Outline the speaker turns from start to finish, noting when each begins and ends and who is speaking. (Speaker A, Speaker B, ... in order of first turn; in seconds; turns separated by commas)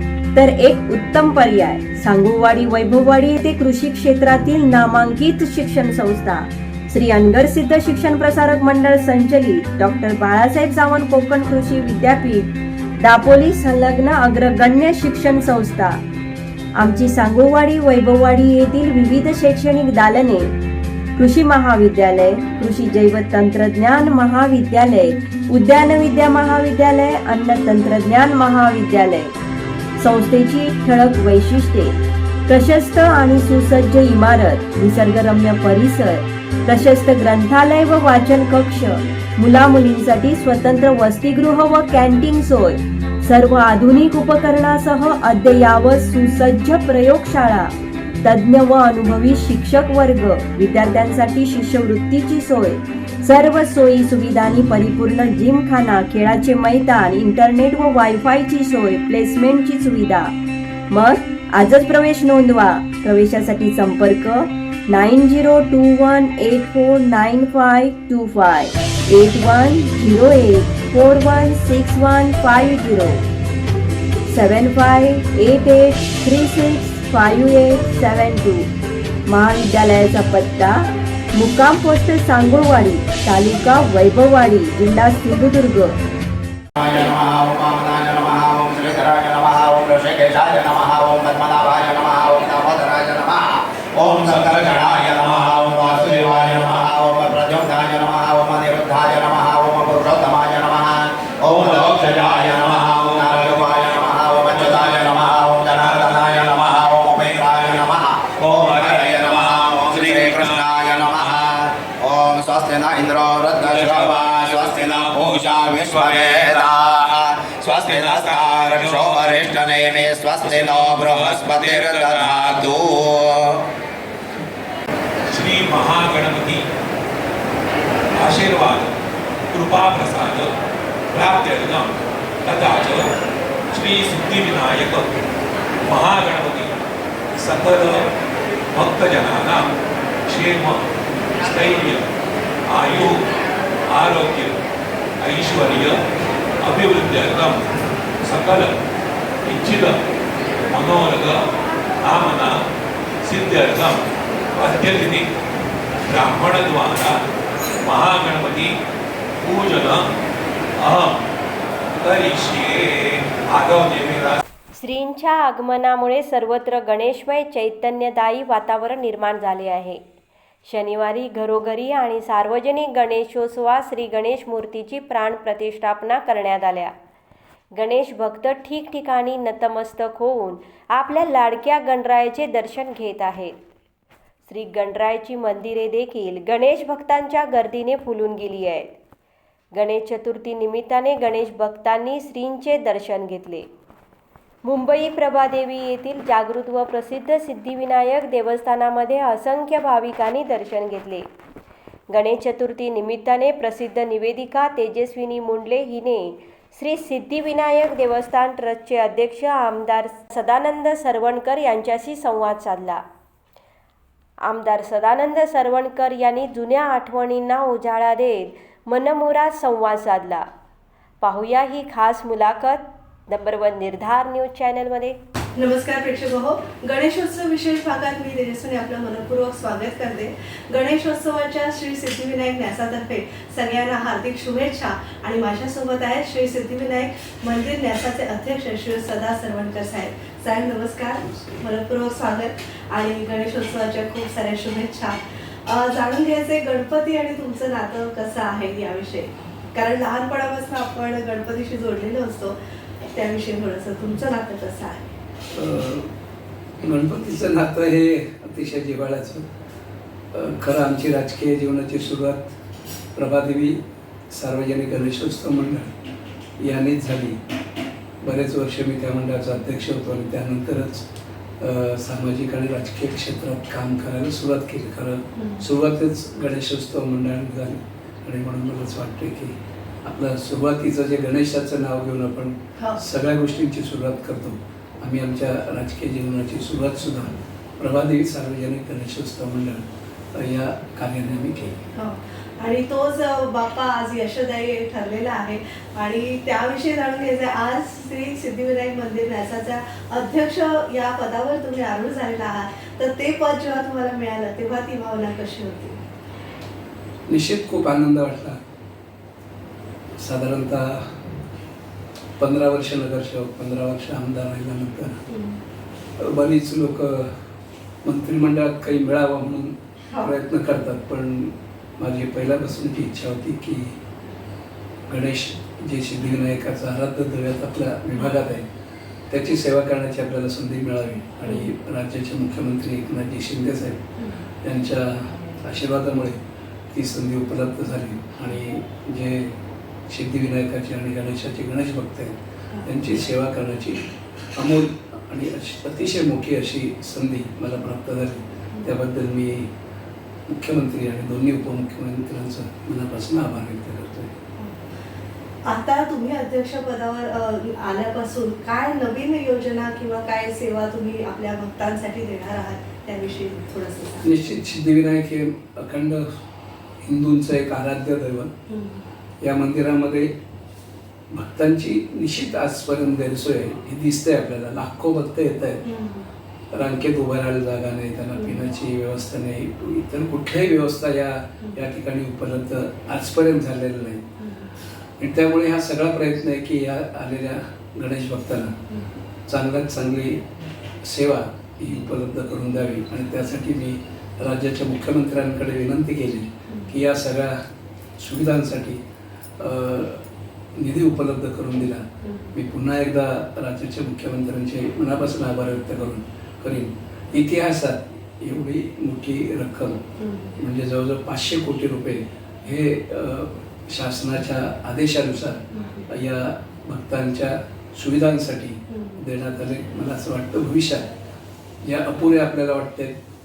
Speaker A: 0.3-16.0, Speaker A: 16.8-20.5, Speaker A: 21.2-29.3, Speaker A: 30.0-31.9, Speaker A: 32.5-60.3, Speaker A: 60.9-73.2, Speaker A: 74.3-78.7, Speaker A: 79.3-85.9, Speaker B: 86.8-123.7, Speaker C: 103.1-104.0, Speaker C: 104.6-105.1, Speaker C: 105.8-106.7, Speaker C: 108.4-110.6, Speaker C: 113.6-116.7, Speaker C: 117.8-119.6, Speaker C: 120.4-122.7, Speaker C: 125.3-126.6, Speaker C: 128.2-128.9, Speaker C: 129.5-130.5, Speaker C: 131.1-131.9, Speaker C: 132.4-133.1, Speaker C: 133.7-135.2, Speaker C: 135.8-136.8, Speaker C: 137.4-138.1, Speaker C: 138.7-139.7, Speaker C: 140.3-140.8, Speaker C: 141.4-142.1, Speaker C: 142.7-143.2, Speaker C: 143.9-144.6, Speaker C: 145.2-146.0, Speaker C: 146.6-147.7, Speaker C: 148.2-148.8, Speaker C: 149.4-150.0, Speaker C: 150.7-151.4, Speaker C: 152.0-152.6, Speaker C: 153.2-154.1, Speaker C: 154.6-155.3, Speaker C: 156.1-157.2, Speaker C: 157.8-158.7, Speaker C: 159.4-160.1, Speaker C: 160.8-161.2, Speaker C: 162.0-164.4, Speaker A: 164.8-170.0, Speaker A: 170.7-176.9, Speaker A: 177.8-183.6, Speaker A: 184.5-189.0, Speaker A: 189.7-193.7, Speaker A: 194.6-201.3, Speaker A: 202.1-213.0, Speaker A: 214.4-220.5, Speaker A: 221.2-225.2, Speaker D: 225.6-255.1, Speaker E: 241.2-241.6, Speaker E: 255.5-256.1, Speaker E: 256.8-259.5, Speaker E: 260.3-262.6, Speaker E: 263.1-263.8, Speaker E: 264.3-265.9, Speaker E: 266.6-267.4, Speaker E: 268.2-271.1, Speaker E: 271.6-291.8, Speaker D: 275.4-275.6, Speaker D: 291.9-306.0, Speaker E: 307.3-308.6, Speaker E: 310.2-311.0, Speaker E: 312.4-315.2, Speaker D: 315.3-315.6, Speaker E: 316.2-317.3, Speaker E: 318.1-323.9, Speaker E: 325.1-328.6, Speaker E: 329.3-334.0, Speaker D: 334.2-334.4, Speaker E: 334.6-336.4, Speaker E: 336.9-339.5, Speaker E: 340.1-344.0, Speaker E: 344.6-349.7, Speaker E: 350.5-354.3, Speaker D: 355.7-364.3, Speaker E: 364.2-366.3, Speaker E: 367.0-368.5, Speaker D: 368.7-369.1, Speaker E: 369.4-370.3, Speaker E: 371.3-375.8, Speaker D: 375.8-376.3, Speaker E: 376.7-384.2, Speaker D: 384.4-384.7, Speaker E: 385.2-388.7, Speaker E: 389.5-390.4, Speaker E: 391.0-397.6, Speaker D: 396.7-396.9, Speaker E: 398.2-399.0, Speaker E: 399.6-400.2, Speaker E: 400.8-410.0, Speaker D: 402.2-402.5, Speaker D: 410.2-410.6, Speaker E: 410.6-421.1, Speaker D: 415.8-416.1, Speaker D: 418.9-419.2, Speaker E: 421.8-423.2